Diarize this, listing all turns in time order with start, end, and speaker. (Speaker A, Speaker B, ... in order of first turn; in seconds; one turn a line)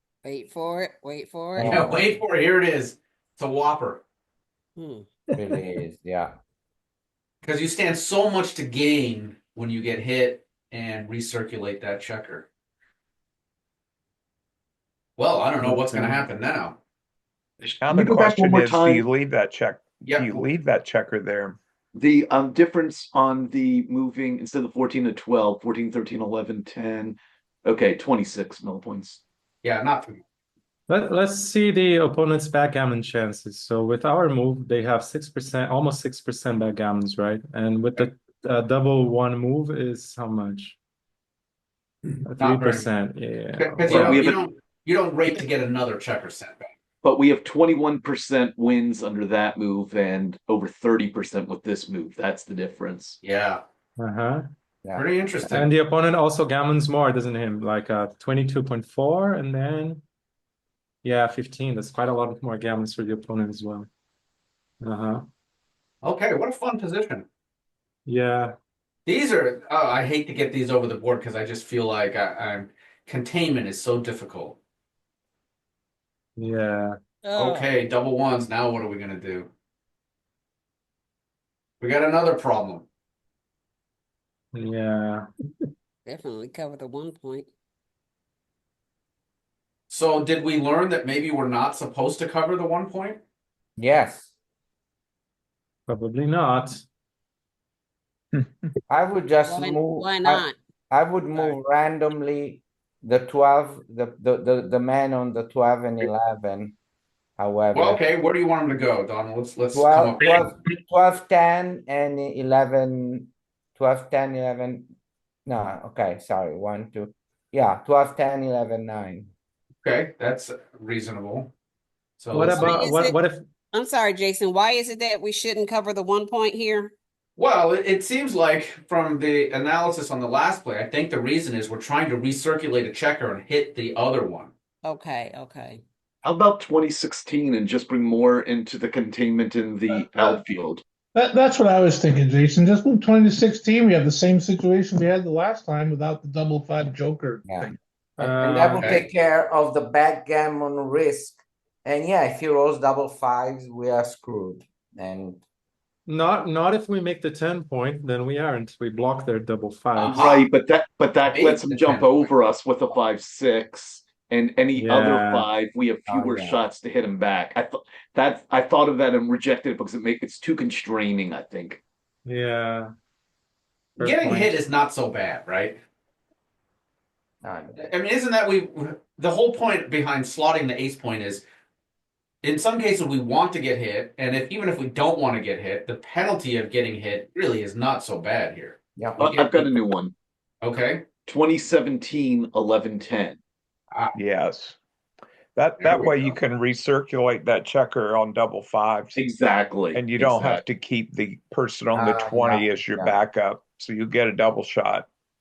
Speaker A: 0.2-1.9
Speaker B: 1.6-2.1
Speaker C: 1.6-4.0
Speaker A: 4.8-5.1
Speaker B: 5.4-6.3
Speaker C: 7.4-12.5
Speaker C: 15.2-16.8
Speaker D: 15.6-16.2
Speaker E: 17.6-19.1
Speaker F: 17.8-21.6
Speaker C: 20.1-20.4
Speaker E: 21.9-29.2
Speaker C: 29.6-30.2
Speaker D: 30.9-40.8
Speaker C: 42.1-42.9
Speaker D: 42.2-44.2
Speaker C: 43.6-46.7
Speaker E: 43.9-44.4
Speaker E: 47.0-53.2
Speaker C: 53.2-53.6
Speaker D: 54.0-54.4
Speaker C: 55.0-55.7
Speaker D: 55.5-60.0
Speaker D: 61.0-63.9
Speaker D: 64.8-65.3
Speaker C: 66.0-67.3
Speaker D: 68.1-68.5
Speaker C: 69.1-74.6
Speaker D: 76.4-77.0
Speaker A: 77.2-77.7
Speaker C: 77.3-79.5
Speaker C: 81.8-82.9
Speaker D: 84.5-85.3
Speaker A: 86.1-87.5
Speaker C: 89.9-93.2
Speaker B: 93.8-94.3
Speaker D: 95.9-96.8
Speaker B: 98.9-106.8
Speaker A: 99.5-100.6
Speaker B: 107.4-108.0
Speaker C: 107.7-110.6
Speaker B: 109.7-114.9
Speaker B: 115.5-119.3
Speaker C: 119.8-121.5
Speaker C: 122.2-122.7
Speaker D: 122.3-123.4
Speaker A: 122.5-123.2
Speaker A: 123.7-126.9
Speaker C: 127.4-134.5
Speaker A: 134.8-135.8
Speaker E: 136.2-140.8
Speaker G: 141.2-147.7
Speaker B: 147.4-155.4
Speaker D: 148.2-148.9
Speaker C: 148.7-149.0
Speaker D: 156.1-160.3
Speaker C: 160.0-160.5
Speaker E: 160.1-171.8
Speaker C: 161.3-162.3
Speaker D: 164.8-165.5
Speaker B: 166.1-166.6
Speaker D: 172.3-172.9
Speaker D: 174.0-174.6
Speaker C: 174.0-175.8
Speaker B: 177.4-177.8
Speaker C: 177.8-181.4
Speaker C: 182.4-189.8
Speaker E: 189.2-190.1
Speaker C: 190.6-191.1
Speaker E: 191.3-193.4
Speaker F: 194.1-194.8
Speaker F: 195.6-199.3
Speaker C: 195.8-196.3
Speaker E: 199.2-200.6
Speaker F: 199.9-205.1
Speaker B: 201.9-203.2